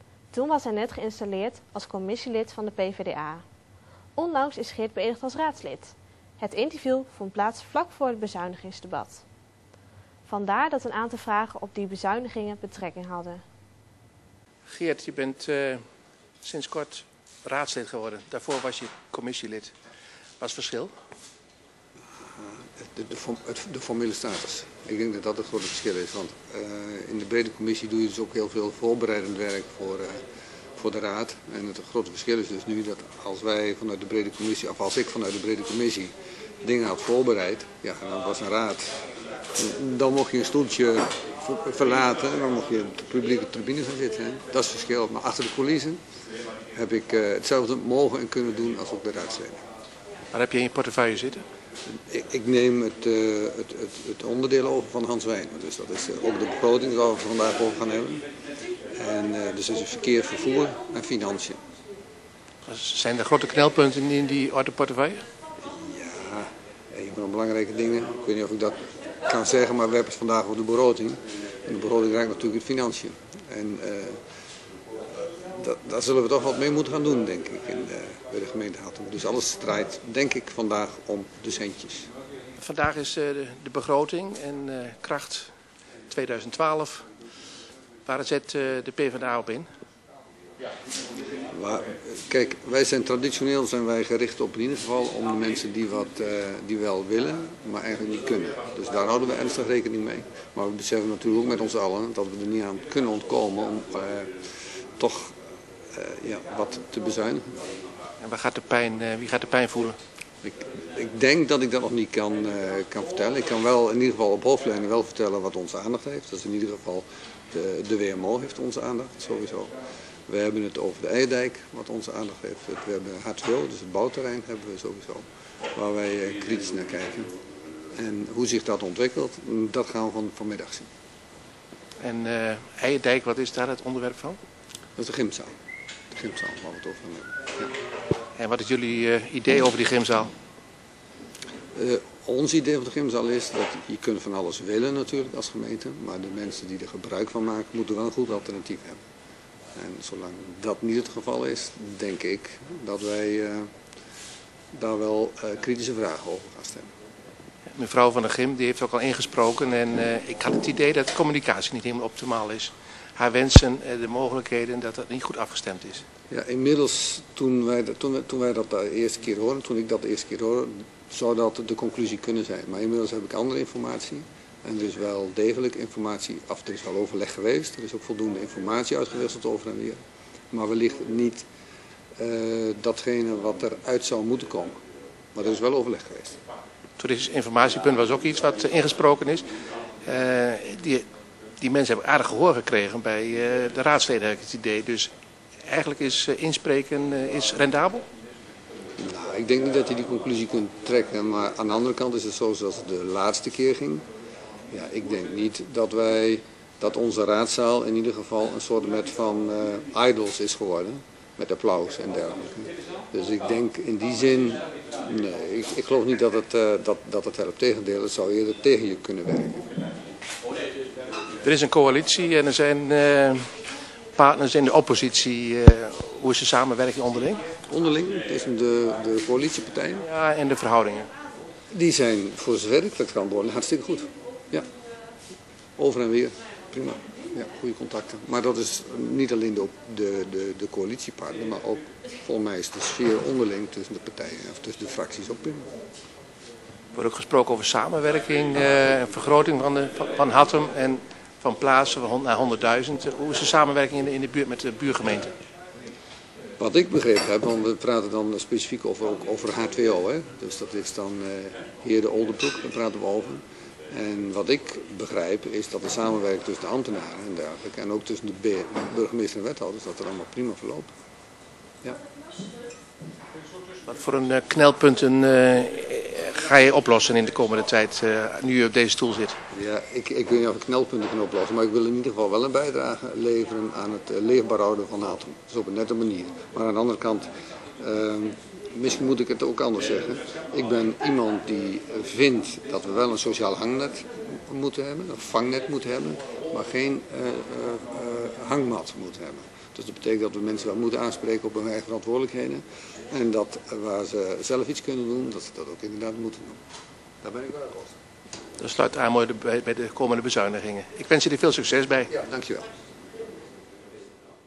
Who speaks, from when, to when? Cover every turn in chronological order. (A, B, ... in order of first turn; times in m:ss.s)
0:00.3-0:03.4 A
0:04.2-0:09.2 A
0:10.3-0:13.4 A
0:14.7-0:15.8 B
0:16.4-0:19.7 B
0:20.4-0:20.9 B
0:22.4-0:30.2 C
0:30.8-0:39.0 C
0:39.6-0:46.0 C
0:46.7-0:49.6 C
0:50.3-0:51.4 B
0:52.1-0:58.2 C
0:59.0-1:01.6 C
1:02.6-1:05.2 B
1:05.7-1:14.2 C
1:15.6-1:22.1 C
1:22.6-1:25.5 B
1:26.1-1:27.1 B
1:28.0-1:29.7 B
1:31.5-1:44.4 C
1:45.0-1:45.3 C
1:45.9-1:47.5 C
1:48.2-1:50.0 B
1:50.4-1:59.7 C
2:00.3-2:07.3 C
2:07.9-2:10.9 C
2:12.0-2:14.4 B
2:15.0-2:15.5 C
2:16.1-2:17.7 C
2:18.4-2:20.3 B
2:21.7-2:29.0 C
2:29.7-2:33.7 C
2:34.7-2:36.9 C
2:37.7-2:46.0 B
2:46.3-3:00.0 C
3:00.5-3:01.4 C
3:02.2-3:04.8 C
3:05.3-3:06.4 C
3:07.0-3:09.4 B
3:10.0-3:11.0 B
3:11.6-3:15.1 B
3:15.6-3:18.0 B
3:19.0-3:24.0 C
3:24.7-3:39.7 C
3:41.4-3:43.6 B
3:44.1-3:47.4 B
3:47.7-3:50.0 C
3:50.0-3:51.1 B
3:51.7-3:54.6 C
3:55.8-4:05.6 C
4:06.9-4:15.3 B
4:16.6-4:30.9 C
4:33.8-4:39.4 B
4:39.5-5:06.6 C
5:07.2-5:07.9 C
5:08.6-5:12.1 B
5:12.1-5:12.6 C